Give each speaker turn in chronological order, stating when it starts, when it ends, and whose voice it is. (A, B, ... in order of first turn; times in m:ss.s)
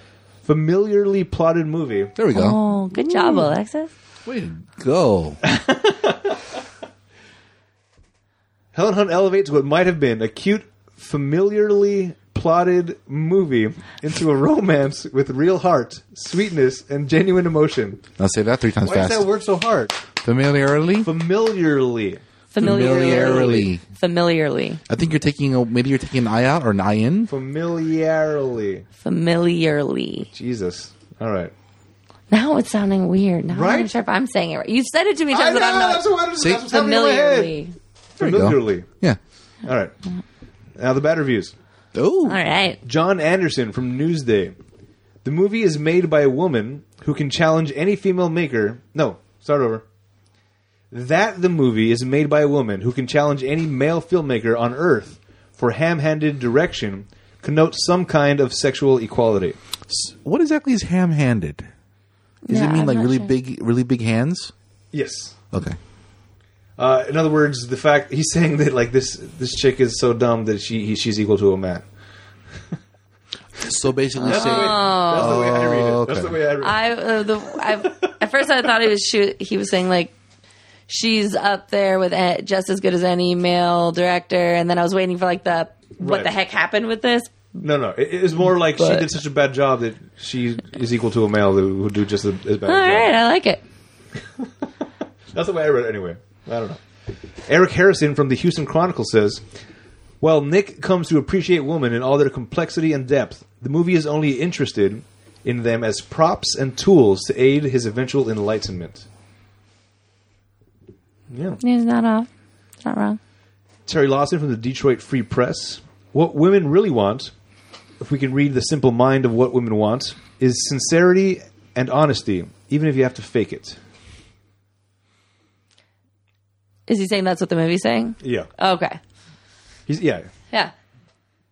0:00.4-0:02.2 A
0:02.2-0:03.5 B
0:02.3-0:03.9 C
0:04.2-0:05.4 B
0:05.4-0:06.4 A
0:08.7-0:18.0 A
0:18.2-0:19.3 B
0:18.8-0:20.0 A
0:20.2-0:21.1 B
0:21.0-0:23.7 A
0:22.5-0:24.8 C
0:22.6-0:23.8 B
0:24.9-0:27.3 B
0:27.3-0:28.9 A
0:29.0-0:30.3 C
0:30.3-0:31.5 A
0:32.3-0:36.1 C
0:33.5-0:33.9 A
0:35.3-0:37.6 A
0:36.4-0:36.7 B
0:36.6-0:37.8 C
0:38.2-0:38.9 A
0:38.2-0:39.2 B
0:39.6-0:39.9 A
0:40.8-0:41.5 A
0:41.9-0:42.4 B
0:42.2-0:42.8 C
0:42.8-0:44.6 A
0:45.2-0:49.8 A
0:50.9-0:59.6 A
0:59.9-1:01.7 B
1:02.5-1:03.3 C
1:02.5-1:04.5 B
1:04.9-1:05.4 A
1:06.8-1:11.8 A
1:13.6-1:16.4 B
1:14.2-1:15.4 C
1:14.2-1:16.9 A
1:16.6-1:20.1 C
1:17.8-1:18.1 A
1:20.9-1:27.4 C
1:26.0-1:26.3 A
1:27.6-1:33.1 A
1:28.8-1:29.1 C
1:32.7-1:33.6 C
1:35.3-1:36.8 A
1:37.5-1:39.4 A
1:40.2-1:49.0 A
1:51.3-1:51.6 A
1:51.6-1:52.3 C
1:52.8-1:53.2 C
1:53.9-1:57.3 A
1:58.0-2:03.8 A
2:06.9-2:09.0 C
2:08.2-2:08.5 A
2:09.9-2:10.3 A